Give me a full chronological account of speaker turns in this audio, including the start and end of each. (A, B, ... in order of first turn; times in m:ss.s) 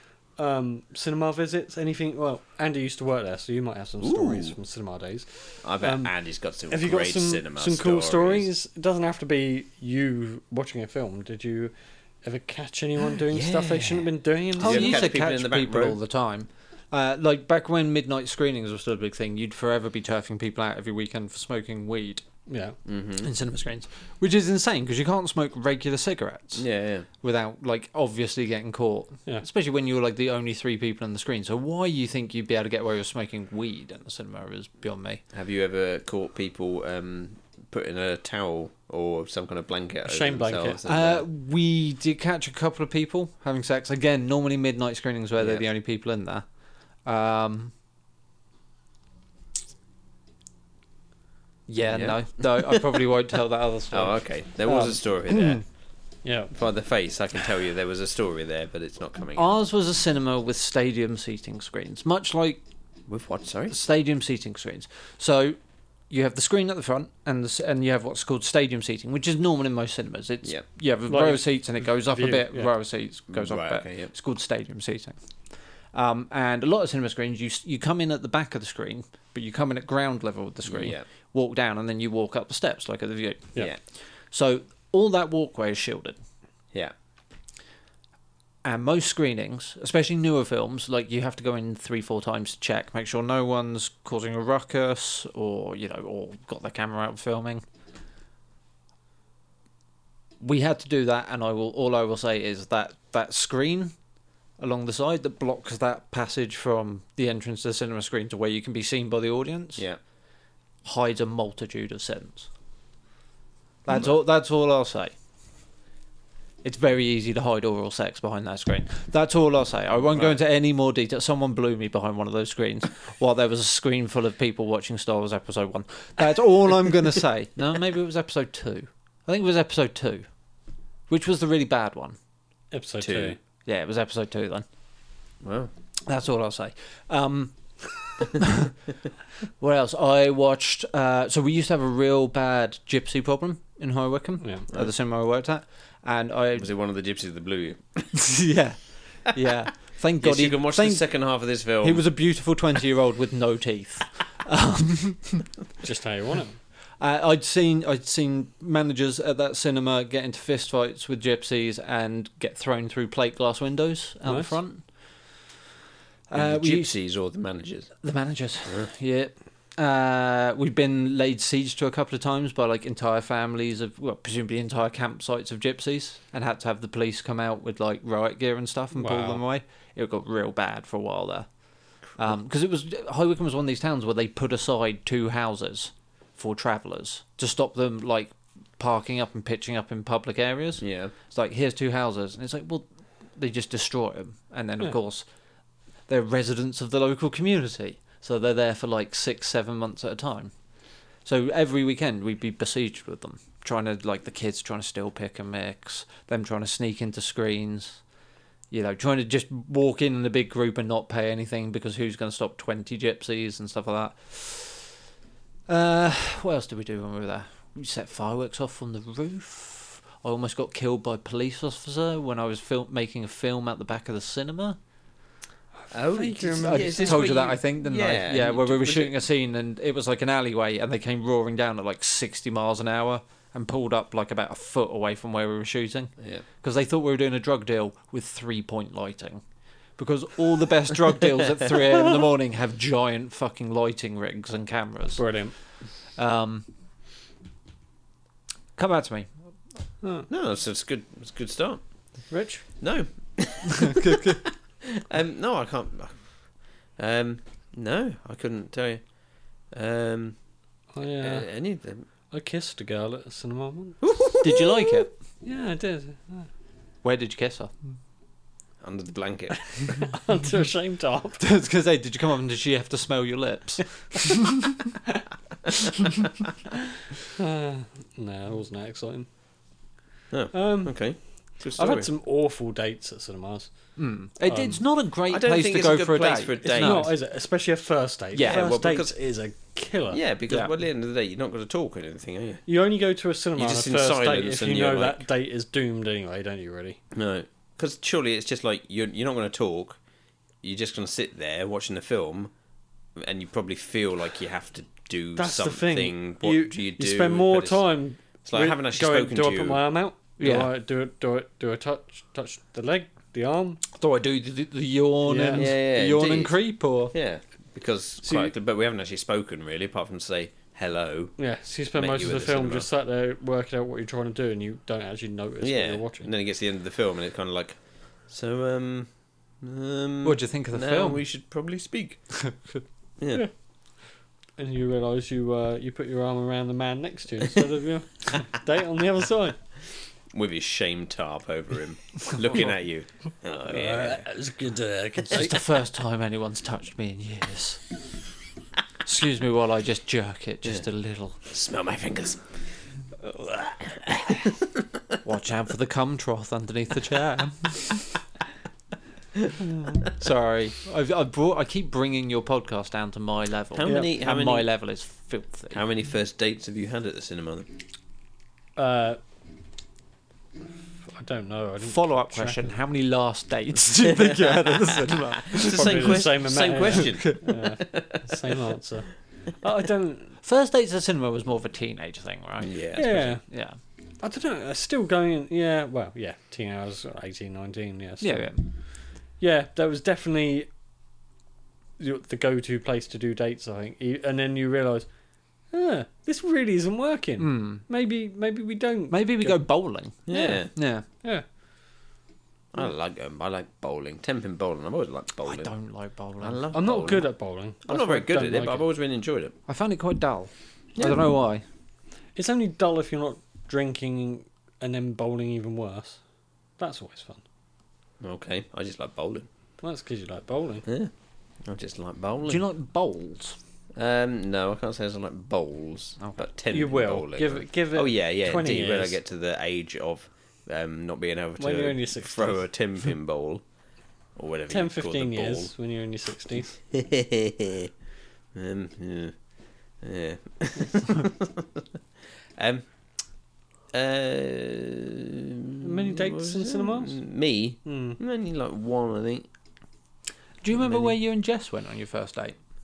0:00.4-0:06.1 A
0:04.0-0:04.5 B
0:05.6-0:08.5 B
0:06.7-0:15.0 A
0:13.3-0:16.0 B
0:14.6-0:22.2 C
0:22.5-0:22.8 A
0:22.8-0:23.3 B
0:23.2-0:26.6 C
0:26.6-0:27.1 B
0:27.2-0:35.2 C
0:35.3-0:41.2 B
0:40.0-0:40.8 A
0:40.8-0:46.4 C
0:45.4-0:45.7 B
0:47.0-0:47.7 C
0:51.7-0:55.6 C
0:51.9-0:53.0 B
0:53.9-0:55.6 B
0:56.2-0:56.5 A
0:56.5-0:59.6 B
0:59.3-1:02.6 C
1:03.1-1:03.8 B
1:03.7-1:05.6 C
1:06.1-1:15.2 C
1:11.1-1:12.7 A
1:13.3-1:14.1 B
1:15.9-1:23.6 C
1:20.6-1:21.0 B
1:24.3-1:26.2 C
1:28.6-1:37.6 C
1:40.4-1:43.9 C
1:44.6-1:49.8 C
1:50.8-1:52.5 C
1:53.8-1:55.1 C
1:56.6-2:10.2 C
2:11.1-2:12.2 C
2:12.7-2:13.4 A
2:13.0-2:13.4 B
2:13.6-2:14.6 C
2:15.4-2:15.7 B
2:16.1-2:18.7 C
2:19.6-2:26.7 C
2:24.4-2:24.6 A
2:26.6-2:28.4 B
2:28.2-2:31.0 C
2:30.2-2:32.0 B
2:31.8-2:35.4 C
2:35.8-2:36.6 A
2:37.0-2:44.8 C
2:44.2-2:44.5 A
2:46.3-2:46.9 C
2:46.3-2:47.9 B
2:48.0-3:01.5 C
2:58.9-2:59.4 A
3:02.2-3:15.2 C
3:10.8-3:11.1 B
3:16.1-3:20.5 C
3:21.2-3:28.0 C
3:28.7-3:35.0 C
3:35.7-3:44.8 C
3:45.9-3:49.1 B
3:46.0-3:47.4 A
3:46.6-3:59.4 C
3:56.2-3:56.4 B
4:00.0-4:05.3 C
4:05.2-4:05.5 A
4:06.2-4:06.6 C
4:08.8-4:09.3 C
4:10.0-4:10.3 A
4:10.3-4:11.8 B
4:12.3-4:12.6 A
4:12.8-4:20.4 B
4:13.8-4:14.4 C
4:20.9-4:21.5 A
4:21.0-4:22.0 B
4:22.3-4:24.0 A
4:24.0-4:25.0 B
4:24.4-4:25.1 C
4:25.4-4:26.5 A
4:27.0-4:27.7 C
4:28.8-4:30.0 B
4:29.7-4:31.4 A
4:31.4-4:34.5 C
4:37.4-4:39.3 A
4:40.3-4:42.1 B
4:40.5-4:41.0 A
4:41.8-4:43.7 A
4:44.0-4:47.1 C
4:44.5-4:44.8 A
4:45.3-4:47.1 B
4:46.6-4:50.2 A
4:48.3-4:48.6 C
4:48.4-4:49.1 B
4:50.1-4:52.6 B
4:52.6-4:57.0 A
4:53.6-4:55.2 B
4:57.1-5:00.0 B
5:00.6-5:02.5 B
5:03.2-5:07.8 B
5:05.4-5:13.8 A
5:08.4-5:09.8 B
5:10.4-5:10.7 C
5:13.9-5:17.1 C
5:15.2-5:15.7 A
5:15.6-5:21.4 B
5:18.2-5:18.5 A
5:21.4-5:26.3 A
5:21.9-5:22.9 B
5:25.6-5:29.1 B
5:29.6-5:32.2 B
5:30.2-5:31.2 C
5:32.4-5:32.8 C
5:33.2-5:33.4 B
5:34.6-5:39.6 A
5:40.3-5:44.2 B
5:43.7-5:45.5 A
5:45.3-5:47.8 C
5:49.0-5:51.4 C
5:51.5-5:52.5 B
5:53.2-5:54.6 B
5:55.2-5:58.0 C
6:00.0-6:05.8 C
6:03.7-6:04.7 B
6:03.8-6:04.1 A
6:05.7-6:07.7 B
6:08.8-6:09.2 A
6:11.1-6:12.7 A
6:11.8-6:17.3 C
6:14.2-6:14.8 B
6:15.5-6:18.4 B
6:15.7-6:20.4 A
6:20.4-6:23.8 C
6:22.6-6:23.1 B
6:22.9-6:23.4 A
6:24.2-6:28.7 A
6:28.2-6:28.6 C
6:29.4-6:30.7 A
6:32.0-6:35.1 A
6:35.7-6:39.6 A
6:37.4-6:37.8 C
6:39.1-6:41.0 C
6:40.3-6:40.7 B
6:40.3-6:40.6 A
6:42.7-6:45.7 B
6:45.4-6:46.8 C
6:46.4-6:47.3 B
6:46.7-6:48.8 A
6:47.8-6:49.5 B
6:49.7-6:51.6 C
6:52.4-6:56.2 A
6:56.8-6:57.4 A
6:58.2-6:59.5 B
6:59.8-7:00.8 A
7:01.6-7:02.6 B
7:02.5-7:03.6 C
7:04.0-7:13.6 B
7:06.7-7:09.2 A
7:11.6-7:12.6 A
7:14.4-7:15.7 B
7:14.7-7:16.7 A
7:16.9-7:17.9 B
7:18.5-7:19.3 B
7:20.0-7:21.8 B
7:22.6-7:22.8 B
7:23.9-7:29.5 B
7:25.8-7:27.2 A
7:27.8-7:28.2 A
7:30.6-7:32.6 C